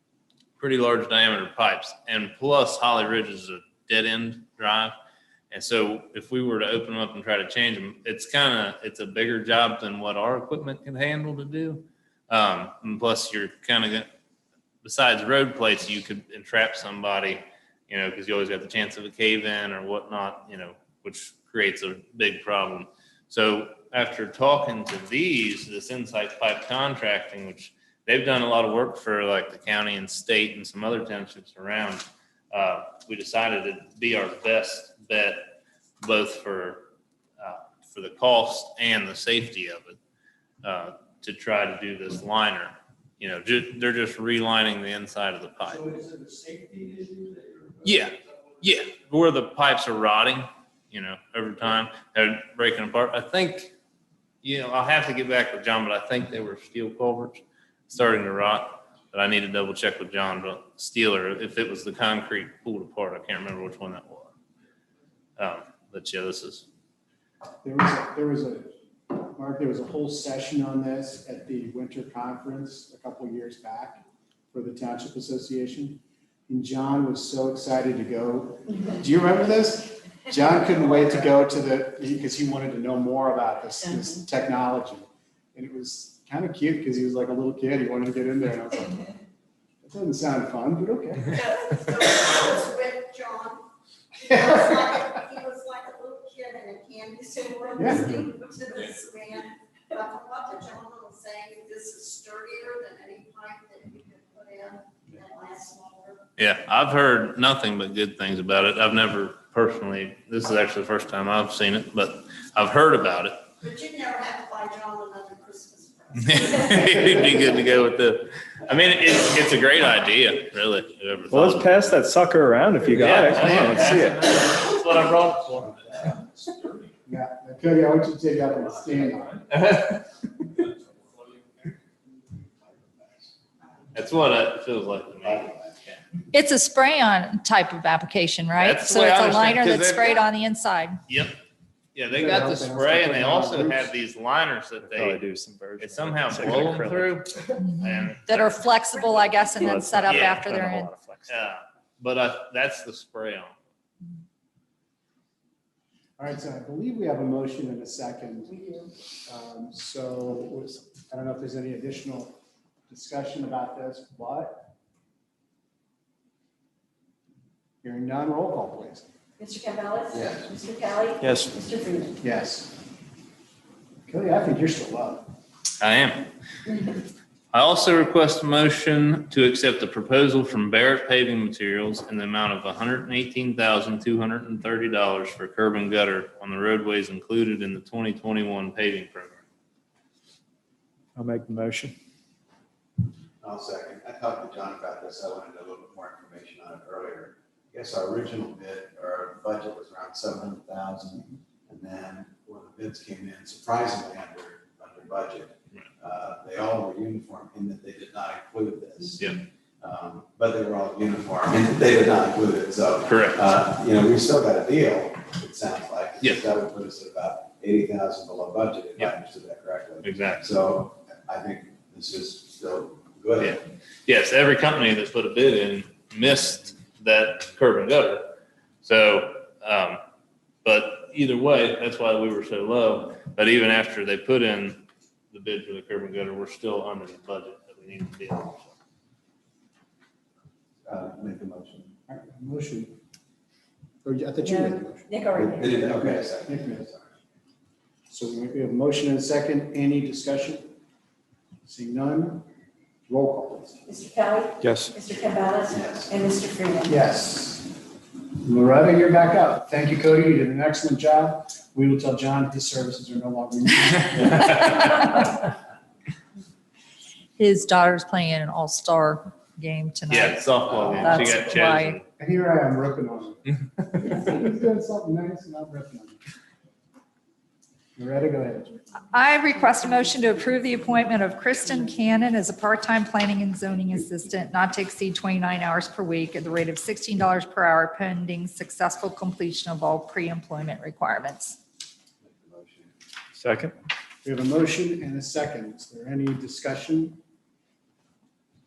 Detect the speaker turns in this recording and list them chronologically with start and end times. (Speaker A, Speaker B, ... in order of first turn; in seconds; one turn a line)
Speaker A: 0.6-4.9
Speaker A: 5.5-14.1
Speaker A: 14.8-40.0
Speaker A: 40.6-45.9
Speaker A: 47.8-53.7
Speaker A: 54.4-64.3
Speaker A: 65.4-66.7
Speaker B: 67.6-89.2
Speaker B: 89.8-91.4
Speaker C: 91.3-106.2
Speaker B: 97.8-98.3
Speaker A: 106.4-113.4
Speaker C: 113.6-117.6
Speaker A: 116.2-122.0
Speaker D: 121.3-124.3
Speaker A: 122.9-125.9
Speaker E: 125.5-126.2
Speaker B: 127.0-129.4
Speaker E: 128.6-128.9
Speaker A: 129.6-130.0
Speaker E: 132.3-133.3
Speaker A: 133.9-135.6
Speaker E: 135.2-135.7
Speaker F: 136.3-141.0
Speaker A: 138.6-140.3
Speaker A: 141.1-141.4
Speaker A: 141.9-145.2
Speaker B: 142.1-143.9
Speaker D: 144.8-147.2
Speaker A: 145.8-148.7
Speaker F: 147.6-150.9
Speaker C: 148.9-149.8
Speaker D: 149.6-151.5
Speaker A: 150.0-150.4
Speaker A: 151.3-153.5
Speaker B: 156.2-158.6
Speaker B: 159.2-164.7
Speaker B: 167.8-169.1
Speaker G: 169.4-172.1
Speaker E: 170.1-170.4
Speaker D: 171.2-171.5
Speaker B: 172.2-172.8
Speaker B: 174.1-175.3
Speaker A: 175.8-176.3
Speaker A: 177.5-189.4
Speaker D: 191.2-191.9
Speaker E: 193.4-209.2
Speaker E: 209.8-223.6
Speaker A: 213.1-213.5
Speaker A: 220.0-220.5
Speaker A: 223.4-230.0
Speaker A: 230.6-238.7
Speaker E: 240.8-241.9
Speaker B: 242.1-242.9
Speaker B: 244.0-245.1
Speaker G: 244.4-245.6
Speaker E: 245.3-247.1
Speaker B: 245.6-246.9
Speaker B: 248.1-250.7
Speaker B: 251.6-252.5
Speaker B: 253.1-253.8
Speaker G: 253.9-256.9
Speaker D: 254.6-254.9
Speaker E: 255.7-256.2
Speaker B: 256.8-257.8
Speaker B: 258.4-265.1
Speaker F: 267.4-272.0
Speaker A: 270.1-272.0
Speaker B: 272.2-276.2
Speaker B: 277.9-278.8
Speaker F: 279.1-291.6
Speaker E: 292.2-292.9
Speaker D: 293.4-293.7
Speaker B: 294.2-297.2